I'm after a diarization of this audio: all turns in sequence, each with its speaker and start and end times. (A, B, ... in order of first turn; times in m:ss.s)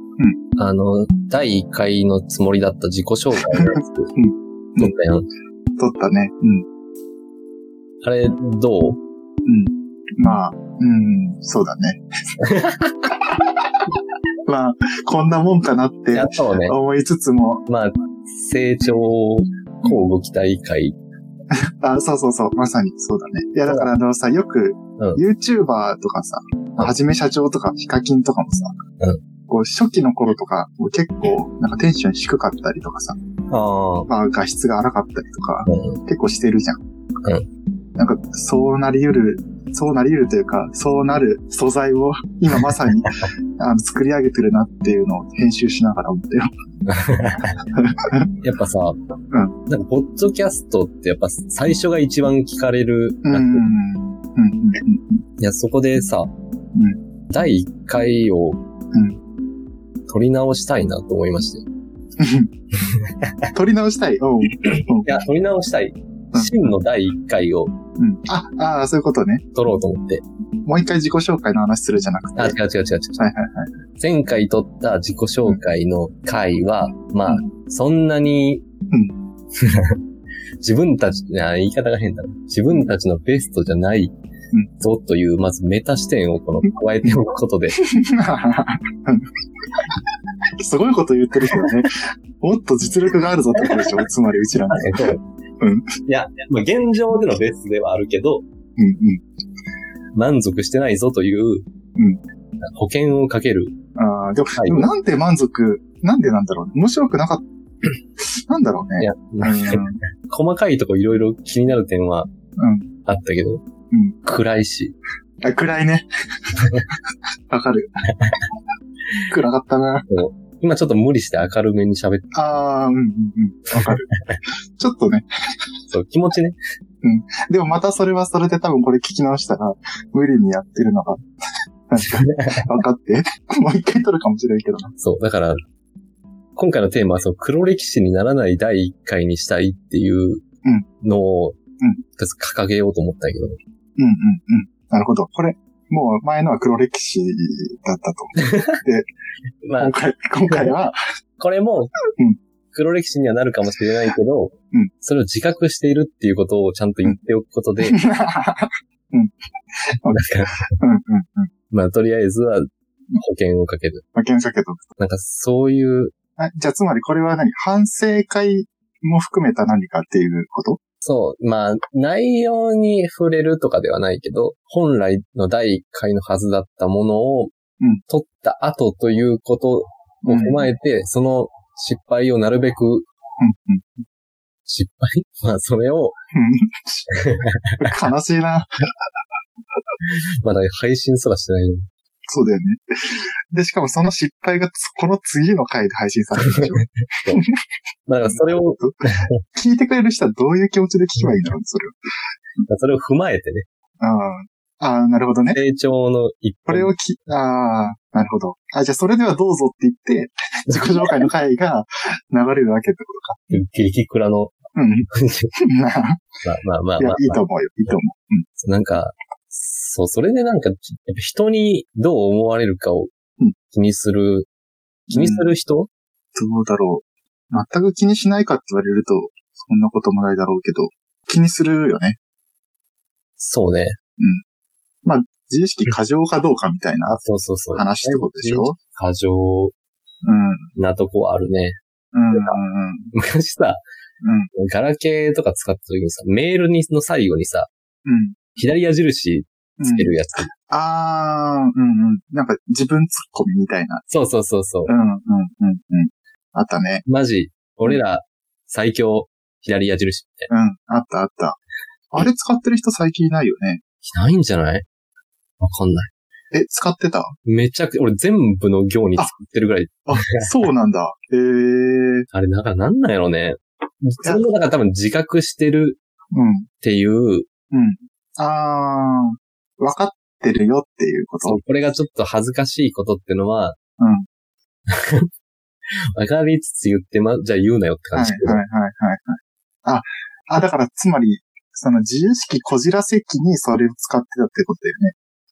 0:00.6-0:04.1 A
0:03.5-0:05.0 B
0:04.8-0:05.3 A
0:05.8-0:06.6 B
0:08.0-0:09.0 A
0:09.4-0:12.0 B
0:12.4-0:12.9 A
0:14.5-0:17.6 B
0:16.1-0:16.7 A
0:17.7-0:21.0 A
0:21.8-0:28.8 B
0:29.5-0:33.2 B
0:33.5-0:34.1 A
0:34.1-0:36.8 B
0:35.7-0:36.0 A
0:38.0-0:46.5 B
0:46.9-0:47.6 A
0:47.7-0:48.3 B
0:48.4-0:49.0 A
0:49.7-0:53.6 A
0:53.2-0:55.2 B
0:55.4-0:56.3 A
0:57.3-0:58.6 A
1:00.1-1:01.6 A
1:02.2-1:02.5 B
1:03.2-1:03.5 A
1:03.5-1:05.2 B
1:04.6-1:07.7 A
1:06.3-1:06.7 B
1:08.0-1:09.4 B
1:09.5-1:10.2 A
1:10.6-1:12.6 B
1:12.4-1:13.2 A
1:13.2-1:13.7 B
1:14.0-1:18.6 A
1:18.9-1:19.2 B
1:19.6-1:20.0 A
1:20.6-1:24.1 A
1:24.8-1:27.8 A
1:27.8-1:29.2 B
1:30.6-1:34.9 B
1:33.6-1:33.9 A
1:34.7-1:35.2 A
1:35.6-1:35.9 B
1:36.0-1:38.4 A
1:38.8-1:39.2 B
1:40.1-1:41.6 A
1:42.6-1:43.7 A
1:44.0-1:47.4 B
1:44.6-1:44.9 A
1:48.5-1:50.0 B
1:49.0-1:52.3 A
1:52.6-1:52.9 B
1:53.0-1:53.6 A
1:53.9-1:54.2 B
1:54.2-1:55.0 A
1:55.4-1:56.1 B
1:57.5-1:57.9 B
1:59.3-2:00.0 B
2:00.1-2:02.3 A
2:02.3-2:04.0 B
2:03.8-2:04.4 A
2:04.8-2:05.3 B
2:05.9-2:06.6 A
2:07.0-2:11.2 B
2:11.9-2:14.9 B
2:12.2-2:12.5 A
2:15.0-2:15.6 A
2:16.6-2:20.4 A
2:21.0-2:21.6 A
2:22.2-2:23.6 A
2:24.0-2:29.1 B
2:29.6-2:29.9 A
2:29.8-2:31.0 B
2:31.4-2:31.9 A
2:32.7-2:38.0 A
2:37.8-2:39.3 B
2:39.9-2:40.3 B
2:40.1-2:40.6 A
2:40.8-2:41.5 B
2:41.7-2:44.0 A
2:44.1-2:44.8 B
2:45.0-2:46.1 A
2:46.4-2:50.8 B
2:51.0-2:57.5 A
2:58.1-3:03.0 A
3:00.2-3:00.7 B
3:03.4-3:03.9 B
3:04.6-3:06.1 A
3:06.3-3:07.2 B
3:07.1-3:07.8 A
3:07.8-3:08.9 B
3:10.1-3:11.8 A
3:12.3-3:17.5 B
3:18.1-3:19.2 A
3:18.2-3:19.0 B
3:19.6-3:22.0 B
3:21.2-3:21.5 A
3:22.7-3:23.6 A
3:24.0-3:25.6 B
3:25.5-3:26.9 A
3:26.7-3:33.4 B
3:30.7-3:31.2 A
3:33.5-3:34.6 A
3:34.7-3:35.1 B
3:35.1-3:35.5 A
3:35.7-3:36.2 B
3:36.4-3:37.9 A
3:37.0-3:38.5 B
3:38.6-3:43.1 A
3:43.7-3:44.5 A
3:45.1-3:45.5 B
3:45.1-3:45.9 A
3:46.4-3:52.2 B
3:53.4-3:54.0 A
3:55.0-3:57.2 B
3:57.1-3:59.7 A
3:57.7-3:58.8 B
4:00.2-4:00.7 B
4:00.8-4:01.8 A
4:02.1-4:03.1 B
4:02.3-4:02.6 A
4:03.1-4:03.8 A
4:04.2-4:04.5 B
4:04.6-4:07.7 A
4:08.0-4:08.6 B
4:08.6-4:10.5 A
4:09.8-4:14.0 B
4:14.1-4:14.9 A
4:14.9-4:17.0 B
4:17.0-4:20.5 A
4:20.5-4:21.6 B
4:22.1-4:23.8 B
4:24.0-4:24.8 A
4:25.6-4:26.1 A
4:26.5-4:27.3 B
4:27.5-4:30.5 A
4:30.1-4:32.2 B
4:32.3-4:36.0 A
4:36.3-4:36.7 B
4:36.8-4:37.5 A
4:37.7-4:41.6 B
4:41.4-4:43.8 A
4:44.0-4:44.3 B
4:44.9-4:45.3 A
4:46.1-4:48.6 A
4:48.1-4:55.1 B